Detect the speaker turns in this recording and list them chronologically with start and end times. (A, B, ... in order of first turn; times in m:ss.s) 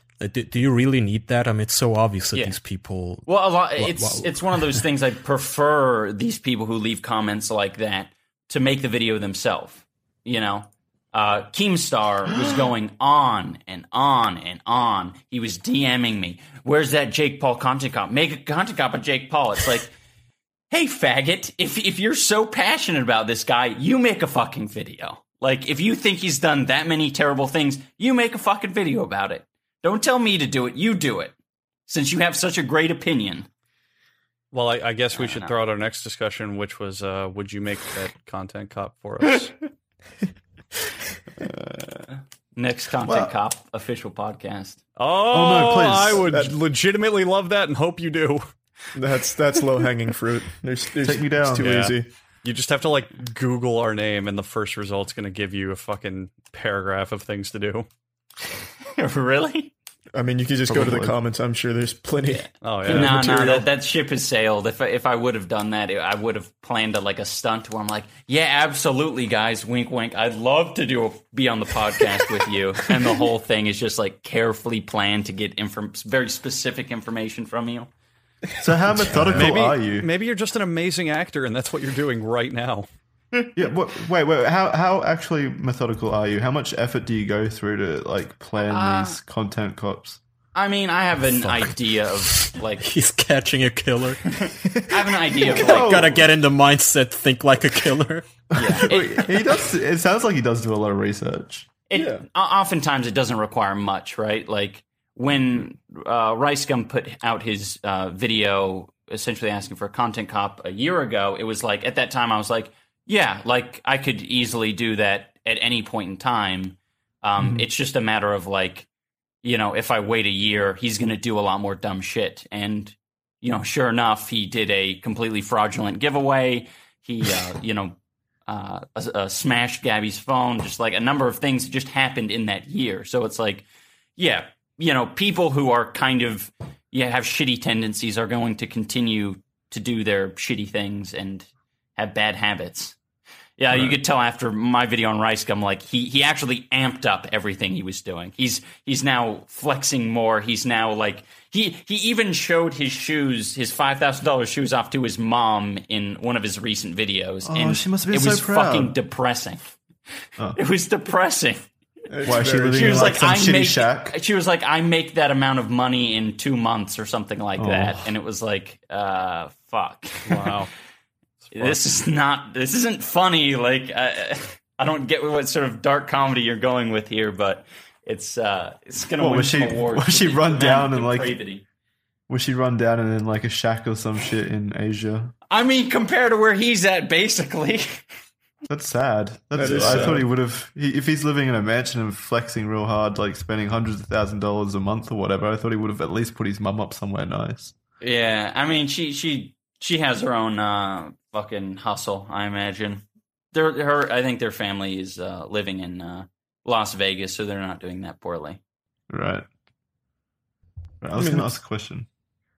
0:00.2-0:04.8 A
0:03.2-0:20.0 B
0:20.7-0:31.3 B
0:31.9-0:33.5 B
0:34.5-0:39.6 C
0:35.1-0:35.6 B
0:41.6-0:44.8 B
0:43.0-0:43.3 D
0:45.0-0:48.5 C
0:45.3-0:46.2 D
0:46.2-0:46.5 E
0:49.0-0:52.1 E
0:51.0-0:51.8 D
0:51.6-0:57.9 C
0:59.0-0:59.7 B
1:00.2-1:03.7 E
1:00.7-1:01.2 D
1:02.3-1:17.9 B
1:02.6-1:03.2 C
1:18.6-1:20.1 D
1:18.6-1:19.5 E
1:19.3-1:22.9 C
1:23.5-1:30.2 D
1:28.7-1:29.2 B
1:30.6-1:32.9 B
1:31.4-1:31.7 A
1:32.8-1:34.3 A
1:34.5-1:36.2 B
1:35.5-1:36.2 D
1:35.5-1:38.3 A
1:38.5-1:41.8 D
1:38.6-1:39.6 B
1:41.9-1:58.9 B
1:41.9-1:42.2 E
1:59.4-2:08.0 B
2:08.5-2:13.6 B
2:14.2-2:23.0 B
2:23.6-2:39.6 B
2:37.4-2:39.0 D
2:40.6-2:41.7 B
2:42.1-2:43.1 E
2:42.2-2:44.2 D
2:42.4-2:50.5 B
2:47.6-2:48.1 D
2:50.2-2:50.7 C
2:51.5-2:51.8 C
2:51.5-3:01.6 B
2:59.2-3:01.4 D
3:02.3-3:05.3 D
3:05.5-3:08.0 B
3:08.7-3:17.7 D
3:09.6-3:10.3 E
3:09.6-3:10.2 B
3:18.0-3:28.6 B
3:29.1-3:29.5 D
3:31.0-3:32.1 D
3:31.2-3:31.5 E